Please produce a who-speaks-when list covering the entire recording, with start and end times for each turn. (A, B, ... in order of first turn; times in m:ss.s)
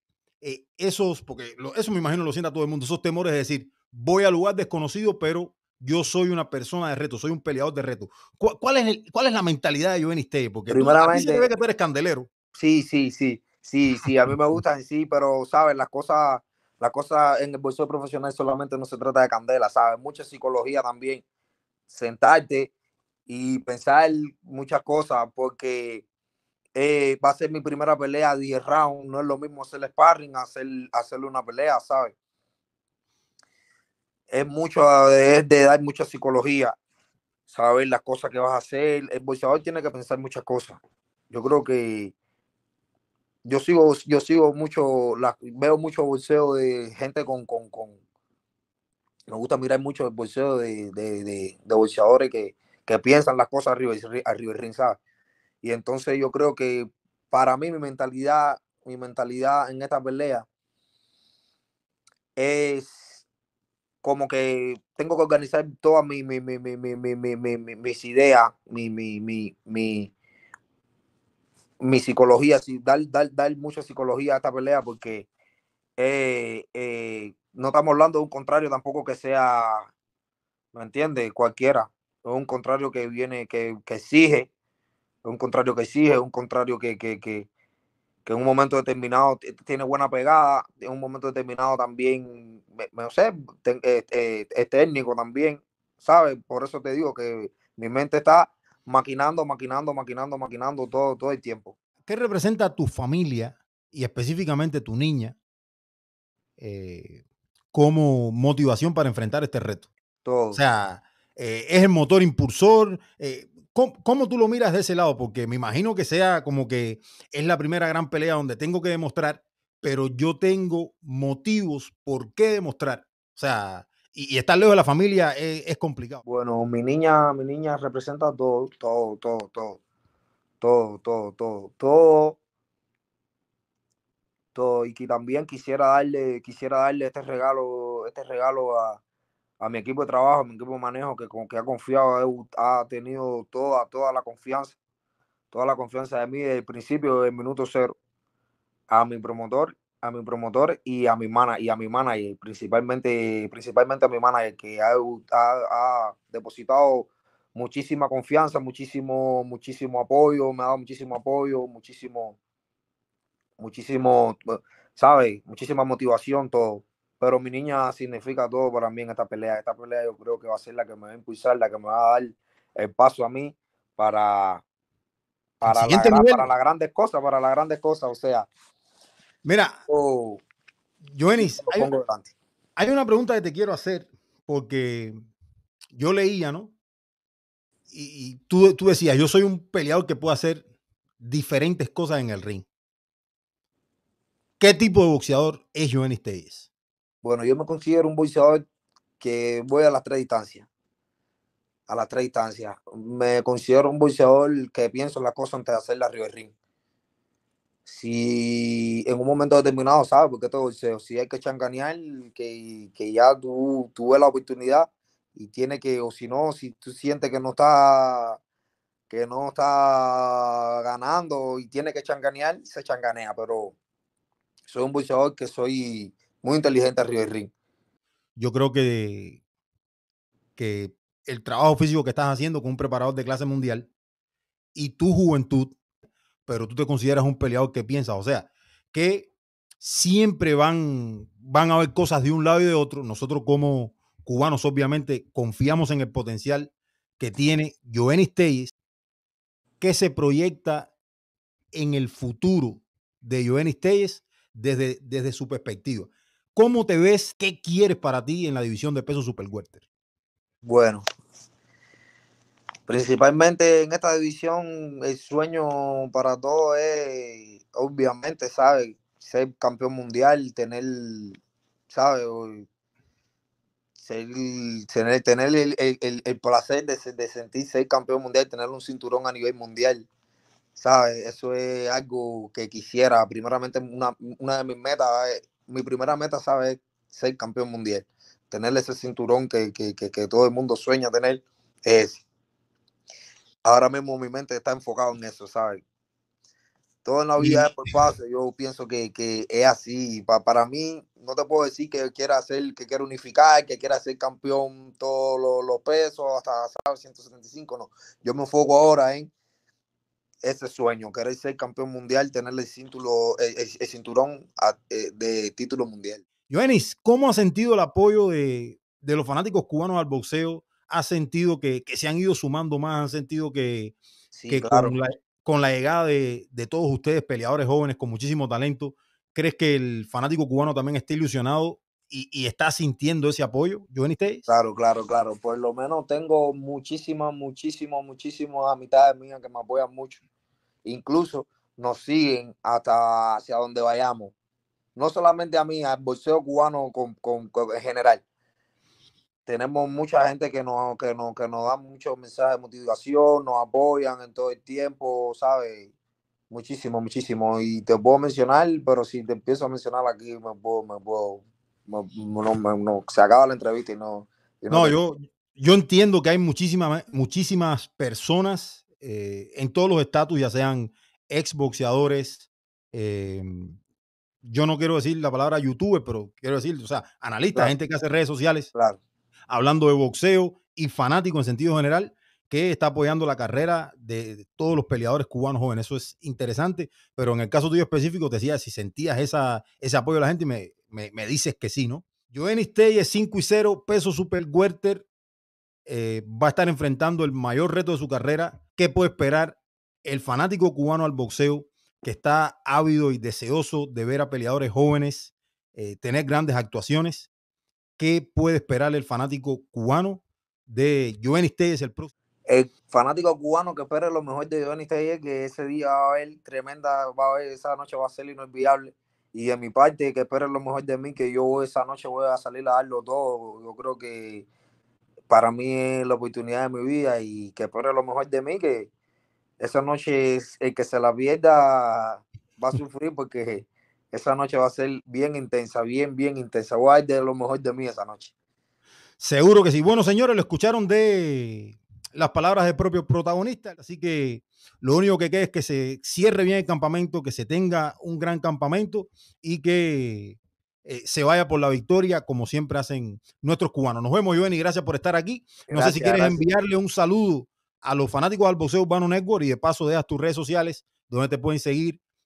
0:00.4-0:12.3 A
0:10.7-0:11.5 B
0:12.6-0:21.2 B
0:21.9-0:22.7 B
0:23.3-0:26.0 B
0:26.8-0:32.1 B
0:34.3-0:36.8 B
0:37.5-0:40.8 B
0:41.3-0:42.1 B
0:43.5-0:48.0 B
0:49.3-0:55.0 B
0:55.6-1:00.5 B
1:02.4-1:03.2 B
1:04.0-1:10.1 B
1:11.8-1:15.3 B
1:16.0-1:19.9 B
1:20.7-1:24.5 B
1:25.2-1:27.5 B
1:28.3-1:41.8 B
1:42.1-1:45.4 A
1:46.6-1:47.2 A
1:47.7-1:49.9 A
1:50.2-1:50.6 B
1:50.5-2:06.2 A
2:06.2-2:09.8 B
2:10.6-2:12.4 B
2:14.6-2:19.0 B
2:19.6-2:24.8 B
2:25.5-2:28.0 B
2:28.9-2:42.4 B
2:43.6-2:54.6 B
2:55.6-2:58.5 B
2:55.6-2:56.5 A
2:59.4-2:59.8 A
2:59.9-3:00.4 B
3:01.1-3:01.9 A
3:01.4-3:02.3 B
3:02.8-3:05.2 A
3:06.0-3:06.7 A
3:07.9-3:10.6 A
3:11.2-3:12.7 A
3:14.6-3:16.7 A
3:17.2-3:18.6 B
3:19.2-3:20.7 B
3:21.9-3:26.5 B
3:27.9-3:38.4 B
3:39.1-3:43.8 B
3:44.7-3:47.5 B
3:48.4-3:49.4 A
3:50.6-3:53.9 A
3:54.8-3:55.8 A
3:56.5-4:08.7 A
4:09.8-4:10.9 A
4:11.7-4:19.8 A
4:20.6-4:21.0 B
4:22.9-4:32.7 B
4:34.0-4:40.1 B
4:40.8-4:52.2 B
4:53.6-4:55.8 B
4:57.0-5:09.3 B
4:57.4-4:58.1 A
5:10.4-5:16.2 B
5:16.5-5:24.0 A
5:24.3-5:25.0 B
5:24.5-5:34.4 A
5:34.5-5:40.2 B
5:40.8-5:44.3 B
5:45.0-5:48.2 B
5:49.5-5:55.9 B
5:56.5-6:05.0 B
6:04.7-6:13.8 A
6:14.4-6:18.7 A
6:18.7-6:19.0 B
6:19.5-6:35.1 A
6:35.9-6:47.3 A
6:48.0-6:52.1 A
6:52.5-7:04.5 B
7:05.3-7:08.9 B
7:09.6-7:18.3 B
7:19.2-7:42.0 A
7:35.7-7:36.4 B